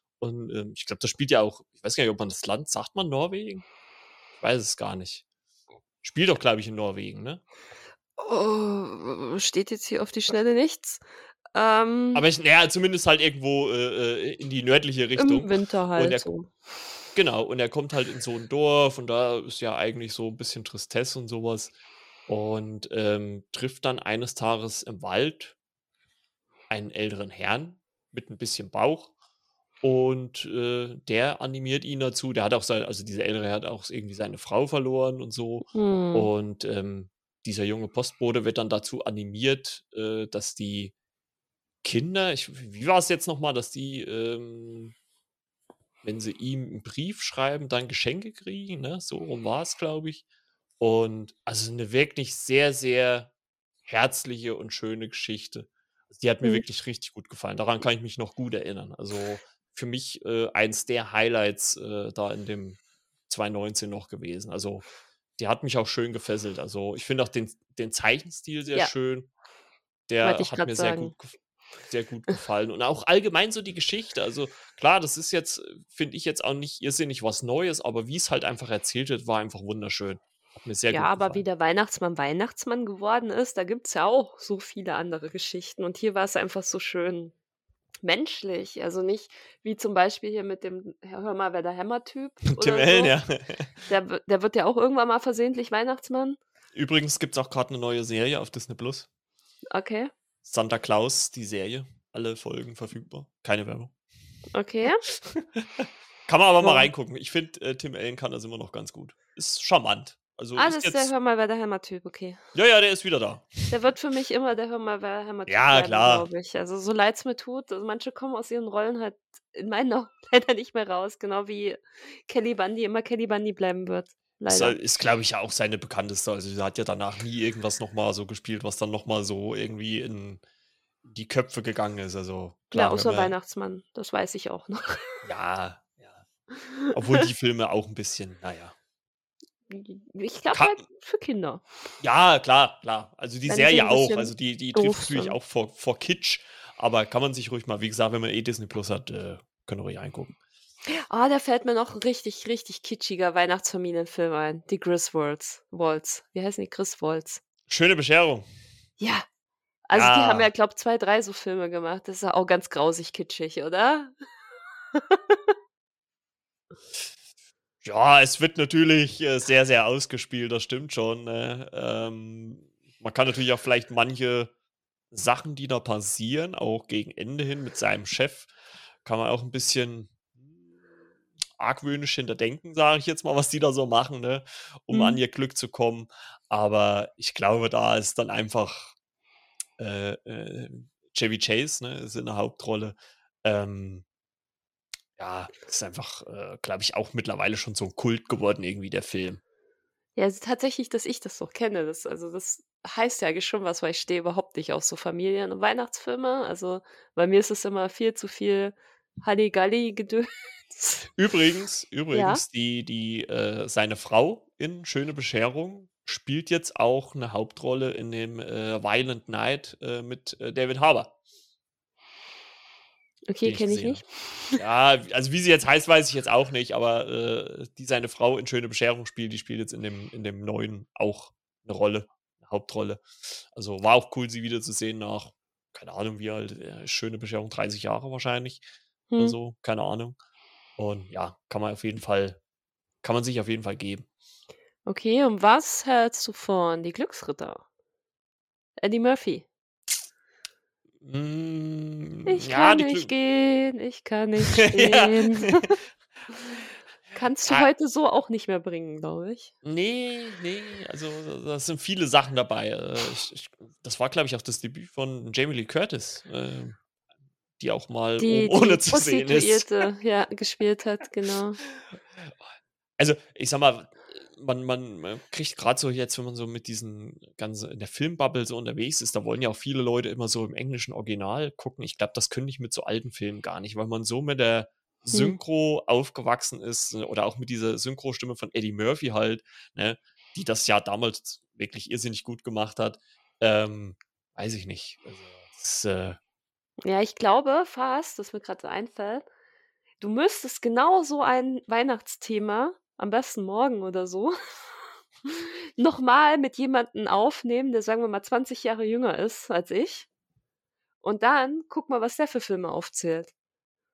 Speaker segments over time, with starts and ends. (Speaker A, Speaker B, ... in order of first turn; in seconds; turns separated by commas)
Speaker A: 0.2-3.6, Speaker A: 4.4-5.2, Speaker A: 6.0-7.4, Speaker B: 8.2-11.0, Speaker B: 11.5-12.2, Speaker A: 12.1-16.3, Speaker B: 15.2-16.5, Speaker A: 17.1-21.7, Speaker A: 22.3-25.5, Speaker A: 26.7-29.1, Speaker A: 29.8-40.9, Speaker B: 35.7-36.3, Speaker A: 41.8-44.9, Speaker A: 46.0-50.2, Speaker A: 50.8-53.3, Speaker A: 53.9-64.8, Speaker A: 65.4-69.3, Speaker A: 70.1-81.4, Speaker B: 70.2-71.1, Speaker B: 80.9-87.3, Speaker B: 88.0-93.2, Speaker A: 92.5-93.7, Speaker B: 93.9-96.4, Speaker A: 96.7-99.1, Speaker B: 99.7-100.1, Speaker A: 100.4-103.9, Speaker B: 104.5-105.0, Speaker A: 105.0-111.1, Speaker B: 106.6-106.9, Speaker B: 110.5-112.4, Speaker A: 112.5-113.7, Speaker B: 113.7-124.8, Speaker A: 115.5-116.2, Speaker A: 124.5-130.4, Speaker A: 131.0-133.3, Speaker B: 132.7-135.1, Speaker A: 135.2-136.2, Speaker B: 136.9-137.2, Speaker A: 136.9-138.7, Speaker B: 139.7-141.6, Speaker A: 140.5-140.8, Speaker A: 142.0-150.3, Speaker B: 143.5-145.3, Speaker B: 151.1-157.4, Speaker A: 157.7-158.4, Speaker B: 159.0-159.2, Speaker B: 159.9-164.1, Speaker A: 159.9-160.5, Speaker B: 164.9-165.4, Speaker A: 167.8-174.5, Speaker A: 175.1-178.5, Speaker A: 179.0-180.2, Speaker A: 181.6-188.9, Speaker B: 184.9-185.2, Speaker A: 189.8-194.0, Speaker A: 195.2-199.4, Speaker B: 200.2-211.1, Speaker A: 211.2-221.1, Speaker B: 212.1-212.4, Speaker B: 223.3-224.6, Speaker A: 223.4-224.0, Speaker A: 224.5-238.6, Speaker B: 239.1-239.4, Speaker A: 239.2-240.2, Speaker A: 240.8-242.4, Speaker A: 243.0-244.1, Speaker B: 244.8-247.6, Speaker B: 248.8-249.5, Speaker A: 251.0-253.1, Speaker B: 252.2-255.7, Speaker A: 254.5-255.7, Speaker B: 257.1-259.5, Speaker A: 259.6-266.8, Speaker A: 267.6-269.7, Speaker B: 268.2-271.6, Speaker A: 271.7-272.3, Speaker A: 273.0-296.2, Speaker B: 296.8-299.2, Speaker B: 300.0-304.3, Speaker B: 305.2-310.1, Speaker B: 311.0-313.3